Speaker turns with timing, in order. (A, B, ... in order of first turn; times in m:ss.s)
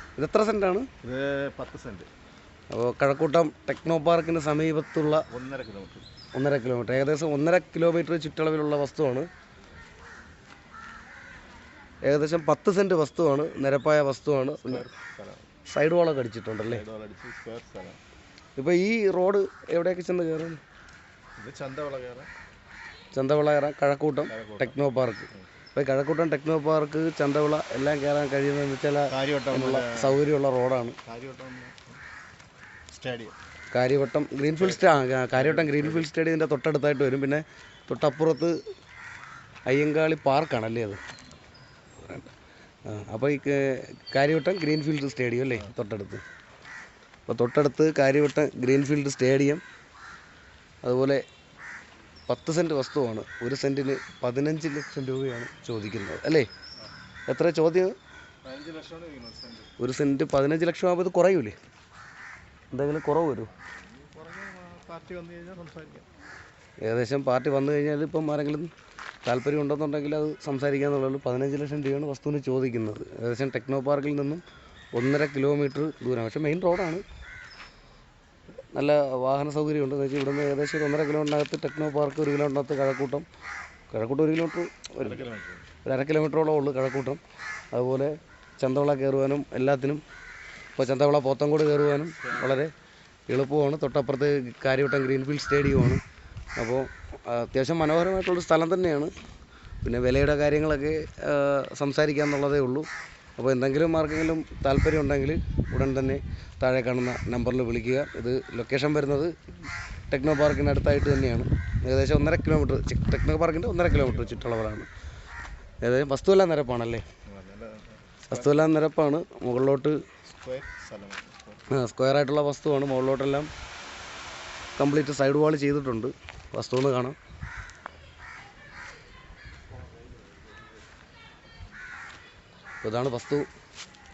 0:00.2-0:00.9 A
0:01.0-0:02.1 B
0:02.7-0:05.2 A
0:05.3-0:06.0 B
0:06.3-0:09.3 A
0:12.0-0:14.8 A
0:14.5-0:15.5 B
0:15.7-0:16.8 A
0:16.7-0:18.0 B
0:18.6-0:20.6 A
0:21.4-0:22.3 B
0:23.1-0:31.0 A
0:24.2-0:24.8 B
0:29.1-0:30.2 B
0:31.0-0:32.0 B
0:32.9-0:33.4 B
0:33.7-0:38.5 A
0:34.5-0:36.1 B
0:39.7-0:41.0 A
0:42.0-0:42.3 A
0:42.8-0:46.2 A
0:47.3-0:49.6 A
0:50.8-0:51.2 A
0:52.3-0:56.5 A
0:57.3-0:57.9 A
0:58.4-0:59.7 B
0:59.8-1:01.6 A
1:02.7-1:03.5 A
1:03.7-1:06.1 B
1:06.8-1:08.7 A
1:09.2-1:14.4 A
1:15.0-1:17.0 A
1:18.7-1:23.2 A
1:23.9-1:25.2 A
1:25.0-1:25.6 B
1:25.8-1:27.2 A
1:27.7-1:30.0 A
1:30.8-1:32.7 A
1:32.3-1:32.6 B
1:33.3-1:36.0 A
1:36.6-1:39.1 A
1:39.8-1:49.3 A
1:50.1-1:54.9 A
1:53.9-1:54.4 B
1:55.8-1:57.0 A
1:57.2-1:58.8 B
1:58.3-2:00.0 A
2:00.3-2:01.6 B
2:01.7-2:03.5 A
2:04.8-2:07.2 A
2:12.8-2:13.4 A